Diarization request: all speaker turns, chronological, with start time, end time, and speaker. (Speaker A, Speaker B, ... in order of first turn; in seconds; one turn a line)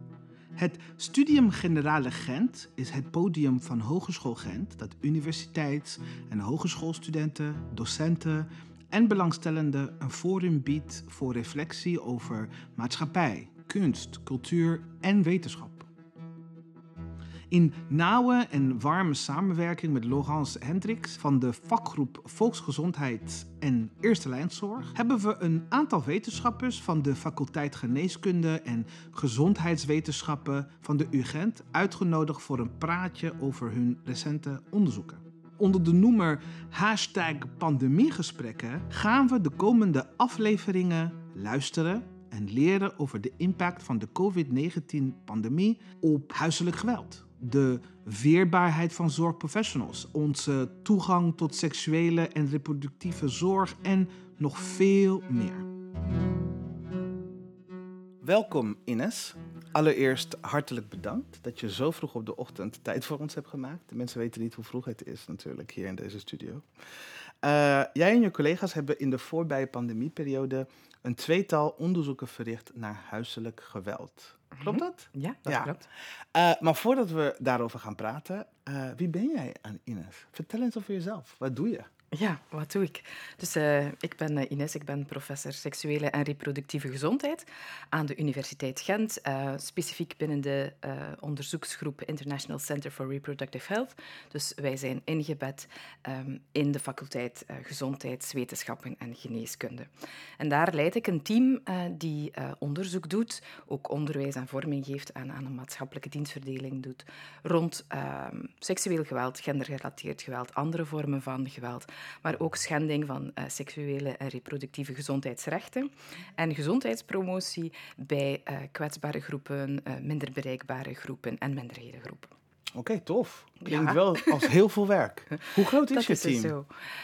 Speaker A: 0.6-15.9
Speaker A: 17.5-55.7
Speaker A: 58.2-66.7
Speaker A: 67.4-75.8
Speaker B: 74.6-75.8
Speaker A: 76.3-81.9
Speaker B: 82.1-122.3
Speaker A: 122.8-126.5
Speaker B: 123.7-124.4
Speaker B: 125.4-126.7